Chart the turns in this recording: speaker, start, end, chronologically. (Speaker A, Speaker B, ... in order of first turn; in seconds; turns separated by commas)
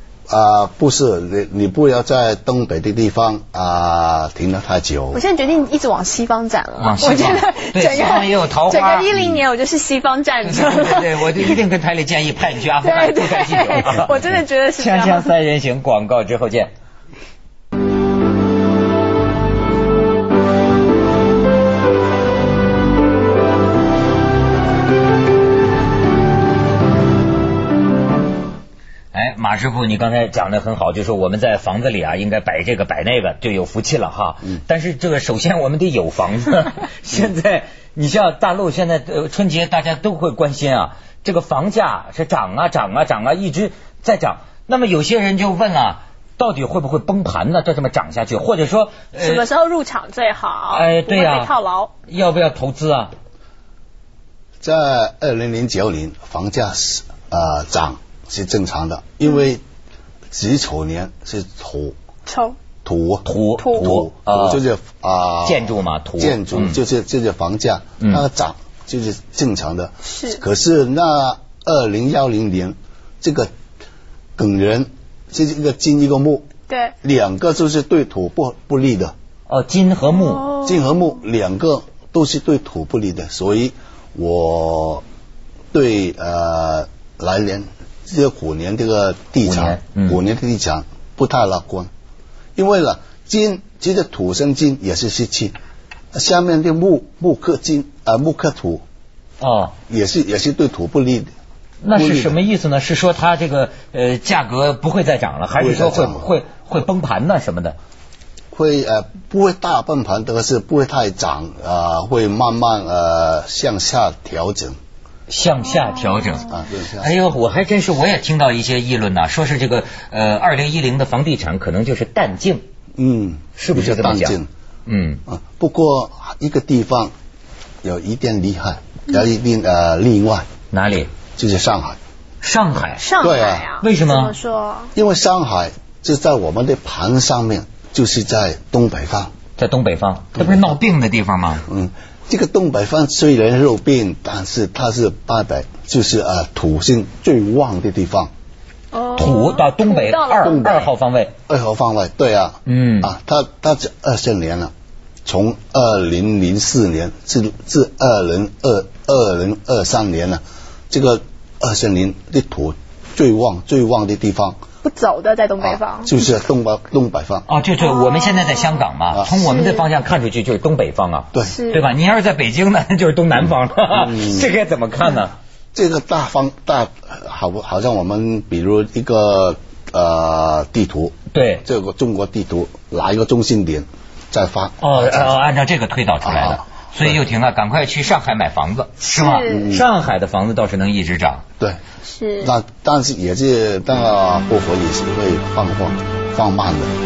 Speaker A: 0.3-5.2, Speaker B: 5.1-11.6, Speaker C: 6.8-9.2, Speaker C: 10.4-16.7, Speaker B: 12.8-15.3, Speaker C: 29.1-49.5, Speaker B: 49.2-51.9, Speaker C: 50.7-51.5, Speaker C: 52.1-53.1, Speaker A: 54.6-59.6, Speaker A: 60.3-62.0, Speaker B: 62.3-62.6, Speaker A: 62.9-73.5, Speaker C: 63.2-64.6, Speaker B: 63.6-63.9, Speaker C: 65.4-66.8, Speaker B: 70.1-70.4, Speaker A: 74.4-76.5, Speaker B: 76.7-76.9, Speaker A: 77.0-79.1, Speaker C: 79.5-80.6, Speaker B: 80.1-80.8, Speaker A: 80.6-85.0, Speaker A: 85.7-91.9, Speaker C: 89.4-90.2, Speaker A: 92.6-95.5, Speaker A: 96.1-98.8, Speaker C: 99.4-99.7, Speaker A: 99.9-101.3, Speaker C: 101.8-107.8, Speaker A: 101.9-102.4, Speaker A: 105.6-106.3, Speaker A: 108.5-114.8, Speaker C: 115.3-122.6, Speaker A: 116.4-117.1, Speaker A: 123.0-124.5, Speaker C: 123.6-125.2, Speaker A: 125.3-127.1, Speaker A: 127.8-130.5, Speaker C: 130.7-131.1, Speaker A: 131.4-132.0, Speaker C: 132.4-133.1, Speaker B: 133.0-134.9, Speaker A: 133.2-133.7, Speaker C: 133.8-134.3, Speaker A: 134.9-139.3, Speaker C: 139.6-141.7, Speaker A: 140.3-140.8, Speaker A: 141.7-148.3, Speaker B: 148.9-150.9, Speaker C: 149.1-151.3, Speaker A: 150.4-150.9, Speaker A: 151.5-154.7, Speaker C: 152.7-153.1, Speaker A: 155.3-164.6, Speaker B: 164.8-166.1, Speaker A: 165.6-167.5, Speaker C: 167.5-175.3, Speaker B: 167.8-169.9, Speaker A: 169.1-169.4, Speaker B: 171.4-171.9, Speaker A: 173.9-174.5, Speaker A: 175.7-185.4, Speaker C: 181.3-181.7, Speaker C: 184.8-191.4, Speaker A: 186.2-187.2, Speaker B: 189.0-189.7, Speaker A: 189.5-189.9, Speaker B: 192.1-192.5, Speaker A: 192.4-196.9